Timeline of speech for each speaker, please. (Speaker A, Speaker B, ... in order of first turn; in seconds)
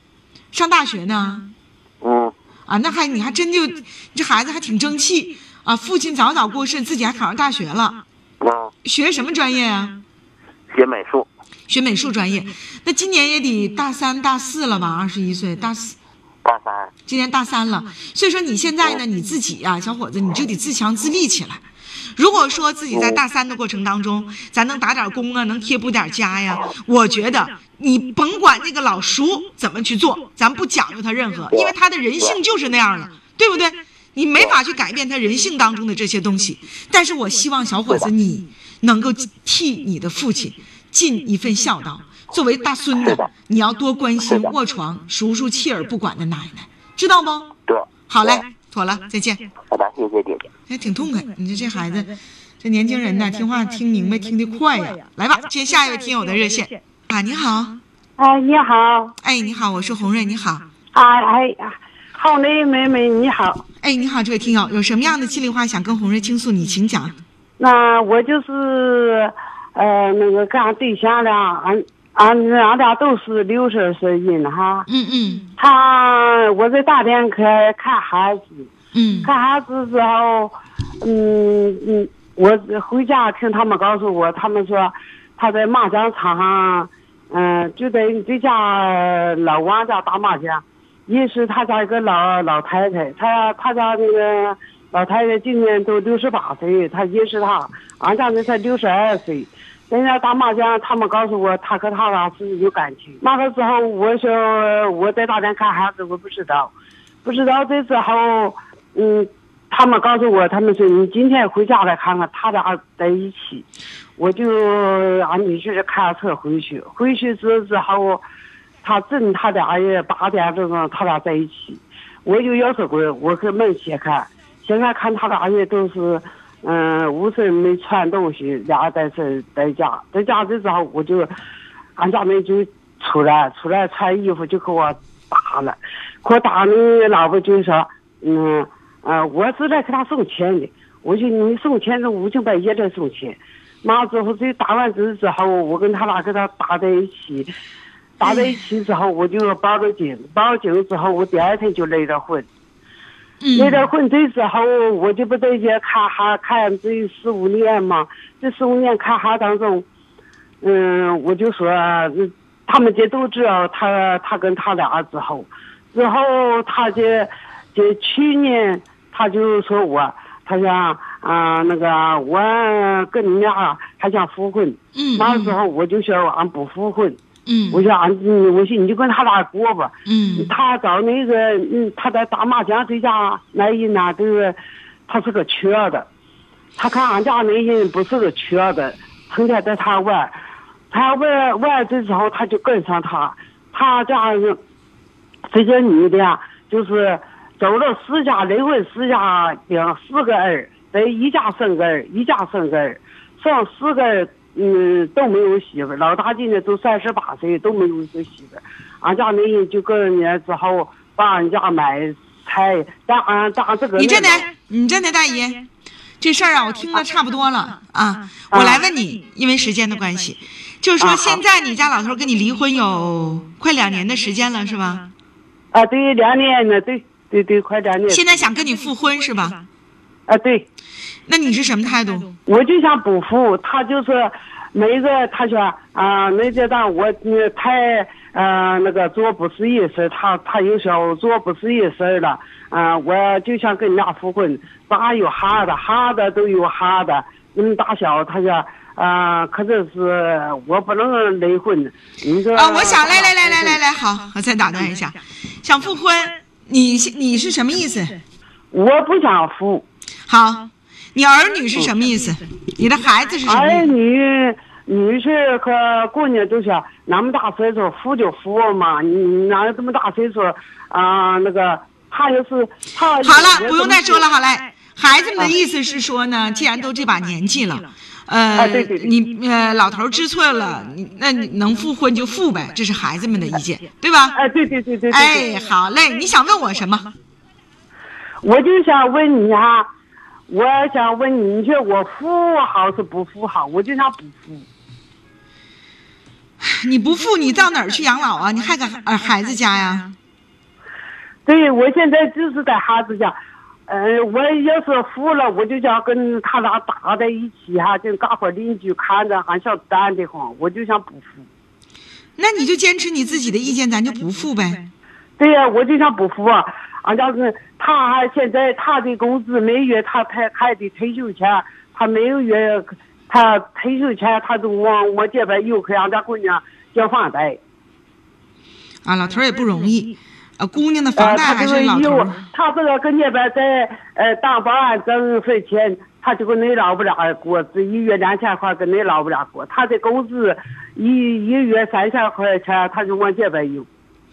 Speaker A: 0.5-1.5, 2.7-8.0, 8.8-10.0, 11.7-15.9, 17.1-21.6, 22.1-47.5, 48.1-49.4, 50.7-57.8, 59.2-60.6, 63.8-67.2, 74.9-75.5, 78.9-79.3, 148.2-148.5, 153.4-153.9, 174.9-175.6, 177.4-177.8, 180.1-180.5, 213.9-215.7, 216.2-225.1, 228.1-229.6, 231.3-232.3, 252.5-258.2, 260.3-263.9, 273.2-284.4, 285.1-287.1, 296.6-300.1, 312.4-314.9, 329.0-332.4
Speaker B: 2.0-2.3, 8.4-8.7, 10.7-11.3, 16.4-16.9, 22.9-23.2, 31.5-32.4, 43.0-43.3, 44.2-44.5, 47.7-48.4, 49.7-50.5
Speaker C: 58.2-59.1, 60.9-63.6, 67.6-74.9, 75.6-78.7, 79.2-106.7, 107.2-113.7, 114.2-118.2, 118.8-131.3, 132.0-147.5, 148.2-152.5, 153.5-159.8, 160.6-177.2, 177.7-186.1, 186.8-190.3, 190.9-194.6, 195.5-214.5, 218.5-218.8, 221.0-221.4, 225.7-228.3, 230.3-230.7, 232.4-253.8, 258.7-259.8, 263.4-274.2, 278.5-279.1, 284.3-285.5, 288.4-289.9, 290.5-294.6, 301.4-303.3, 303.9-311.5, 315.4-327.6, 331.1-343.9